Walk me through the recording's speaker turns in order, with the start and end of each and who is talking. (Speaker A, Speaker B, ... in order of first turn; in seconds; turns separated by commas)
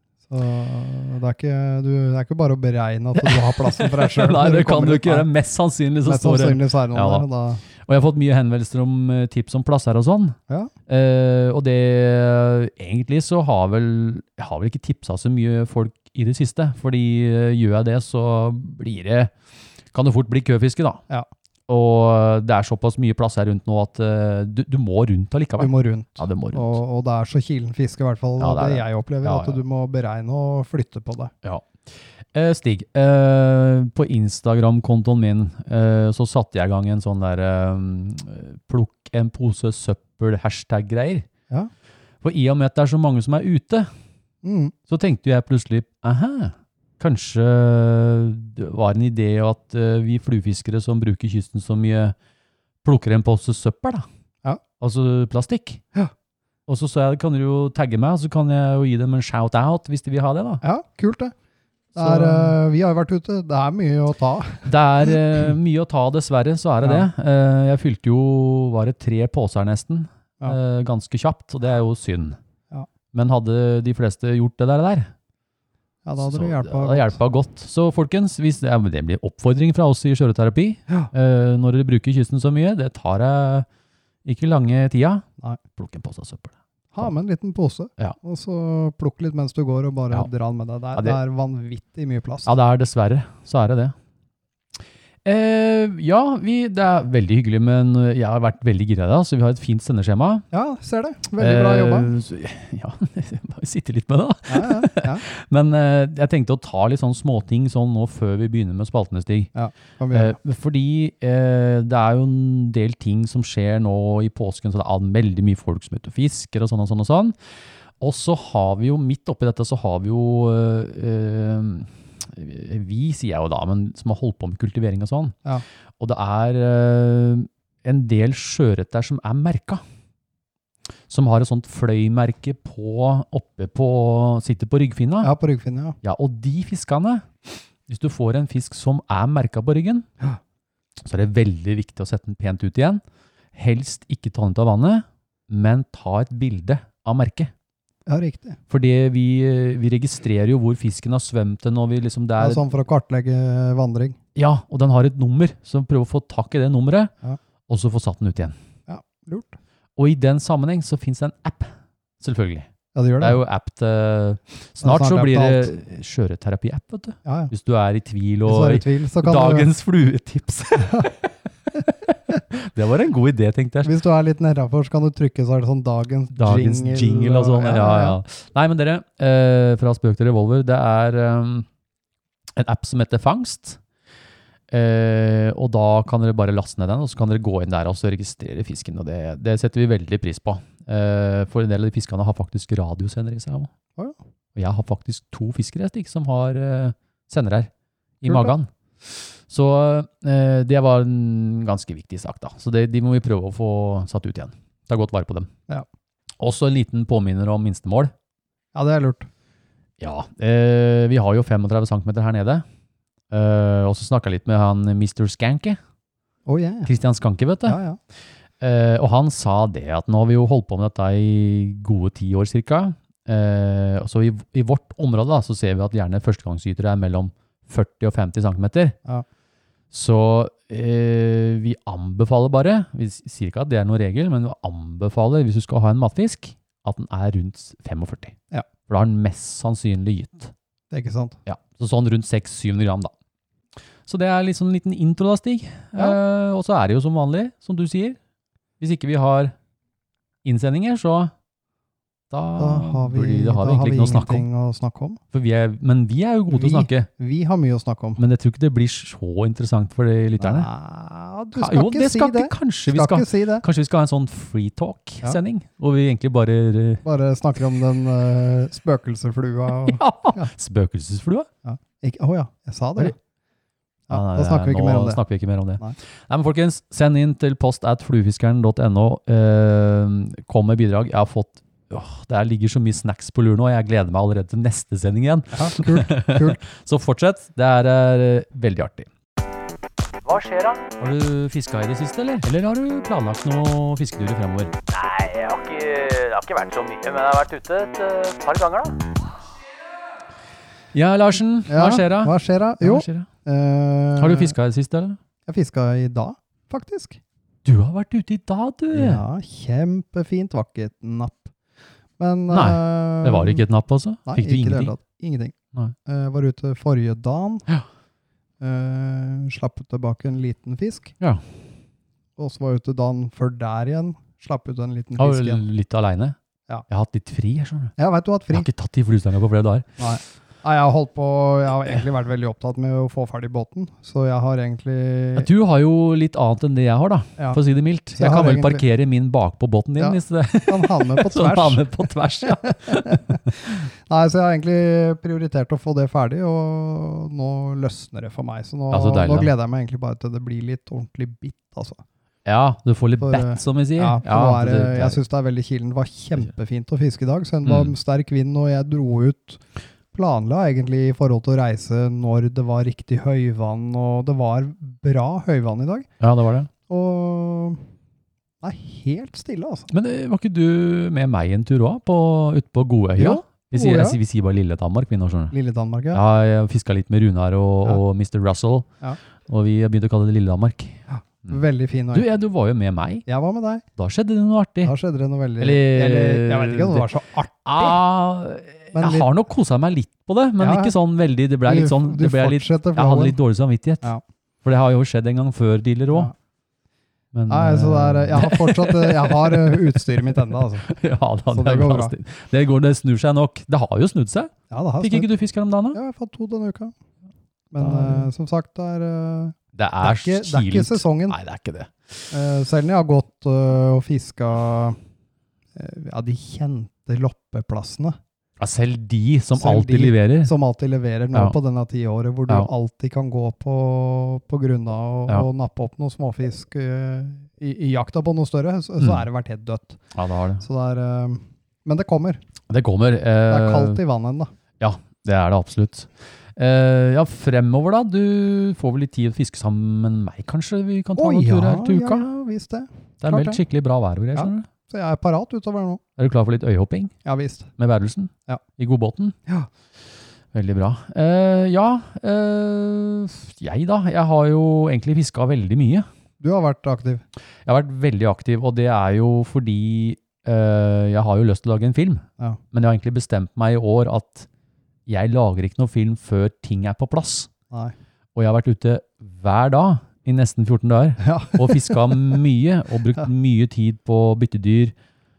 Speaker A: 0.3-5.3, Speaker B: 3.1-10.4, Speaker A: 6.0-7.6, Speaker B: 10.9-19.3, Speaker B: 19.9-21.0, Speaker B: 21.7-26.8, Speaker A: 25.6-31.3, Speaker B: 28.4-29.6, Speaker B: 31.4-41.3, Speaker B: 42.2-43.9, Speaker A: 44.4-44.7, Speaker B: 44.9-52.1, Speaker B: 52.8-54.1, Speaker B: 54.8-55.8, Speaker B: 56.7-60.6, Speaker A: 60.6-61.3, Speaker A: 62.0-65.2, Speaker B: 62.0-62.5, Speaker B: 64.7-72.4, Speaker A: 66.8-67.1, Speaker B: 73.1-75.1, Speaker A: 76.0-77.2, Speaker B: 76.2-83.7, Speaker B: 84.3-85.2, Speaker B: 85.8-87.1, Speaker A: 86.9-92.5, Speaker B: 92.5-94.0, Speaker B: 95.2-100.4, Speaker A: 100.5-102.1, Speaker B: 101.4-109.5, Speaker A: 104.5-105.2, Speaker A: 109.5-110.4, Speaker B: 110.1-117.4, Speaker B: 118.0-125.3, Speaker B: 126.0-129.8, Speaker B: 131.1-135.3, Speaker A: 135.2-136.0, Speaker B: 136.0-140.1, Speaker B: 141.1-143.0, Speaker B: 143.5-147.5, Speaker A: 148.1-148.6, Speaker B: 148.7-152.6, Speaker A: 152.4-154.2, Speaker B: 154.3-157.1, Speaker B: 157.7-158.6, Speaker A: 158.9-159.6, Speaker B: 160.0-162.7, Speaker A: 162.9-163.4, Speaker B: 163.2-173.9, Speaker A: 164.8-165.7, Speaker A: 167.2-167.5, Speaker A: 168.5-169.7, Speaker A: 173.8-178.2, Speaker B: 176.3-181.7, Speaker B: 182.6-183.8, Speaker B: 184.7-193.7, Speaker B: 194.6-197.7, Speaker B: 198.2-205.5, Speaker A: 198.2-198.5, Speaker B: 206.4-208.1, Speaker A: 208.7-209.3, Speaker B: 210.0-212.7, Speaker B: 213.3-215.8, Speaker A: 216.5-216.9, Speaker B: 216.8-217.8, Speaker A: 217.7-218.0, Speaker B: 218.6-229.0, Speaker B: 229.9-240.5, Speaker A: 240.9-241.4, Speaker B: 241.5-243.1, Speaker B: 244.1-248.2, Speaker B: 248.8-249.5, Speaker B: 250.4-251.3, Speaker B: 252.3-254.5, Speaker A: 252.6-255.2, Speaker B: 255.3-257.1, Speaker A: 256.5-258.2, Speaker B: 258.2-260.7, Speaker A: 260.4-263.6, Speaker B: 261.6-267.0, Speaker A: 267.0-270.5, Speaker B: 269.7-271.5, Speaker A: 271.6-273.1, Speaker A: 274.1-275.2, Speaker B: 274.1-289.1, Speaker A: 285.5-286.6, Speaker C: 290.2-290.8, Speaker B: 291.0-294.8, Speaker C: 294.9-299.0, Speaker B: 300.9-303.3, Speaker A: 301.7-304.6, Speaker B: 304.2-305.2, Speaker A: 305.5-307.2, Speaker B: 307.6-309.2, Speaker A: 308.9-311.5, Speaker A: 312.2-313.6, Speaker B: 312.5-315.0, Speaker A: 314.3-315.6, Speaker A: 316.1-317.6, Speaker A: 318.6-321.1, Speaker A: 322.4-325.6, Speaker B: 325.2-326.4, Speaker B: 326.9-327.9, Speaker A: 328.0-328.7, Speaker B: 328.5-329.9, Speaker A: 330.0-335.5, Speaker B: 335.4-343.4, Speaker A: 338.2-338.8, Speaker A: 340.0-341.9, Speaker A: 342.5-352.0, Speaker B: 348.9-349.5, Speaker B: 352.4-355.2, Speaker A: 353.2-359.6, Speaker B: 357.6-357.9, Speaker A: 360.1-366.1, Speaker B: 366.2-366.7, Speaker A: 366.9-367.8, Speaker A: 368.6-369.9, Speaker B: 369.9-375.5, Speaker A: 373.2-374.2, Speaker A: 375.5-376.2, Speaker B: 376.1-378.9, Speaker B: 379.5-381.6, Speaker A: 381.1-382.3, Speaker B: 382.1-383.3, Speaker A: 383.3-383.8, Speaker B: 384.0-384.9, Speaker A: 384.8-388.0, Speaker B: 385.6-387.1, Speaker B: 387.6-394.1, Speaker A: 388.9-389.3, Speaker A: 390.6-390.9, Speaker A: 391.6-393.4, Speaker B: 394.6-396.3, Speaker B: 397.3-406.0, Speaker A: 397.5-400.9, Speaker A: 401.5-402.1, Speaker A: 404.7-405.3, Speaker A: 405.9-406.9, Speaker A: 407.7-411.4, Speaker B: 407.8-408.3, Speaker B: 409.8-412.2, Speaker A: 412.3-415.0, Speaker A: 415.8-418.2, Speaker B: 418.6-420.5, Speaker A: 419.6-430.0, Speaker B: 430.1-430.6, Speaker A: 430.6-432.4, Speaker B: 432.7-434.0, Speaker A: 433.5-434.5, Speaker B: 434.8-442.3, Speaker A: 441.2-443.6, Speaker B: 443.2-444.7, Speaker A: 444.4-446.0, Speaker B: 446.2-447.1, Speaker A: 447.2-447.7, Speaker B: 447.8-449.4, Speaker B: 450.5-456.1, Speaker A: 456.4-457.2, Speaker B: 457.7-464.5, Speaker B: 465.1-467.5, Speaker B: 468.4-474.9, Speaker A: 471.2-472.2